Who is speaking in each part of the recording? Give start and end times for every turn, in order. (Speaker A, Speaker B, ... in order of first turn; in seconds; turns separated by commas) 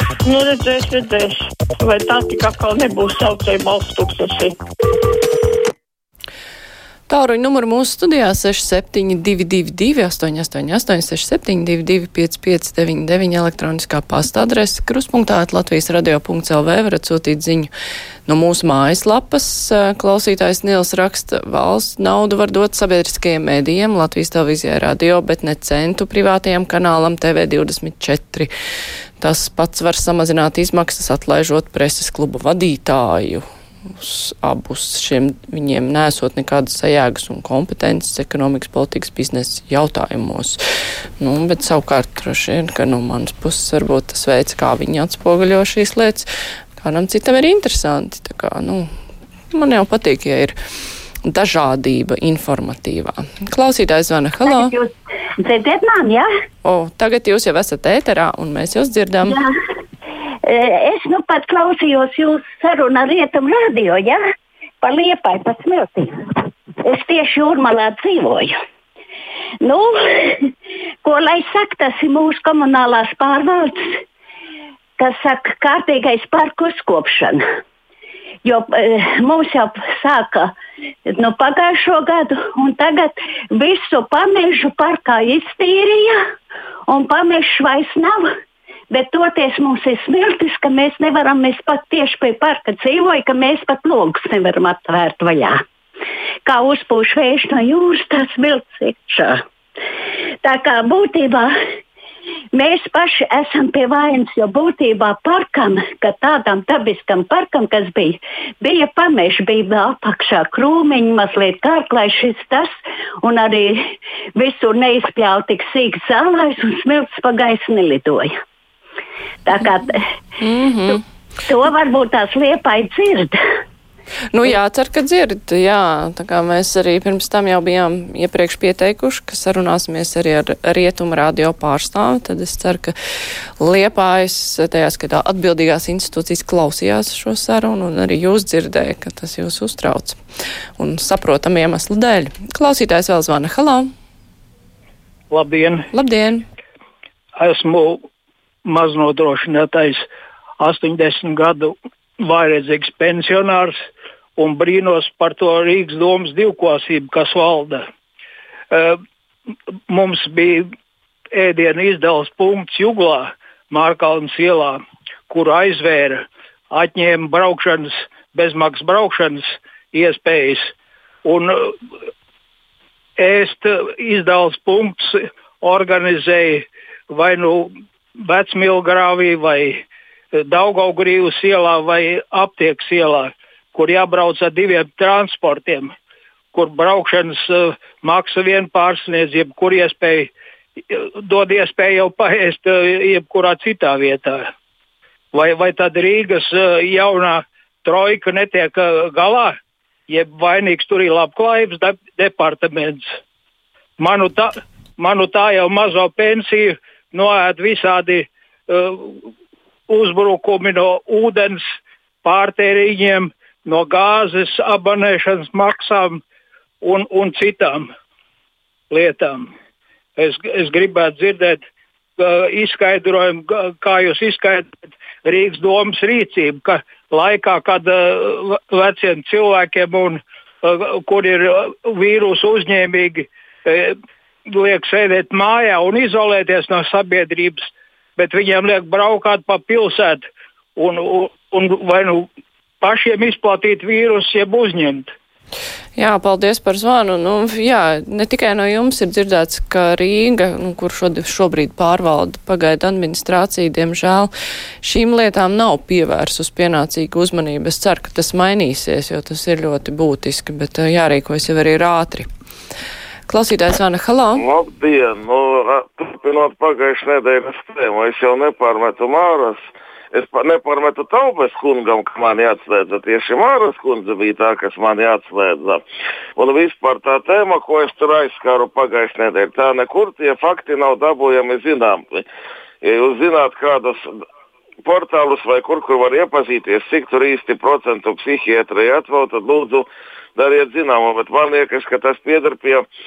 Speaker A: 0.3-4.5, Speaker B: 7.1-17.7, Speaker B: 18.3-28.5, Speaker B: 29.2-33.4, Speaker B: 34.0-40.6, Speaker B: 41.2-48.9, Speaker B: 49.5-50.6, Speaker B: 51.2-54.7, Speaker C: 54.5-54.9, Speaker C: 55.4-56.3, Speaker B: 56.6-59.4, Speaker C: 59.2-59.5, Speaker C: 60.5-64.2, Speaker C: 64.8-66.1, Speaker C: 66.8-68.5, Speaker C: 69.6-70.4, Speaker C: 71.0-73.8, Speaker C: 75.0-77.4, Speaker C: 78.5-80.5, Speaker C: 81.1-86.2, Speaker C: 86.9-88.3, Speaker C: 88.9-95.6, Speaker C: 96.5-99.4, Speaker C: 100.4-101.5, Speaker C: 102.5-112.7, Speaker C: 113.2-113.8, Speaker C: 114.4-118.3, Speaker C: 119.5-120.0, Speaker B: 120.4-121.0, Speaker C: 121.5-123.4, Speaker B: 124.3-132.9, Speaker B: 133.6-140.2, Speaker B: 140.8-143.9, Speaker D: 145.3-145.9, Speaker B: 145.9-146.4, Speaker D: 147.4-148.0, Speaker D: 148.7-150.1, Speaker D: 150.6-153.8, Speaker D: 154.4-157.8, Speaker D: 158.7-159.0, Speaker D: 159.9-160.7, Speaker D: 161.3-170.7, Speaker D: 171.2-171.7, Speaker D: 173.2-177.7, Speaker D: 178.2-179.8, Speaker D: 180.3-185.9, Speaker D: 186.5-190.3, Speaker D: 190.9-194.5, Speaker D: 195.3-199.6, Speaker D: 200.1-203.1, Speaker D: 204.0-209.2, Speaker D: 209.9-211.6, Speaker D: 212.2-216.2, Speaker D: 216.8-217.9, Speaker D: 218.9-219.5, Speaker D: 220.2-221.6, Speaker D: 222.2-234.0, Speaker D: 234.5-242.3, Speaker D: 242.8-245.1, Speaker B: 246.0-254.3, Speaker B: 254.8-262.3, Speaker B: 263.3-264.4, Speaker E: 264.4-269.6, Speaker E: 270.1-275.8, Speaker E: 276.4-282.2, Speaker E: 282.8-284.0, Speaker E: 284.9-292.9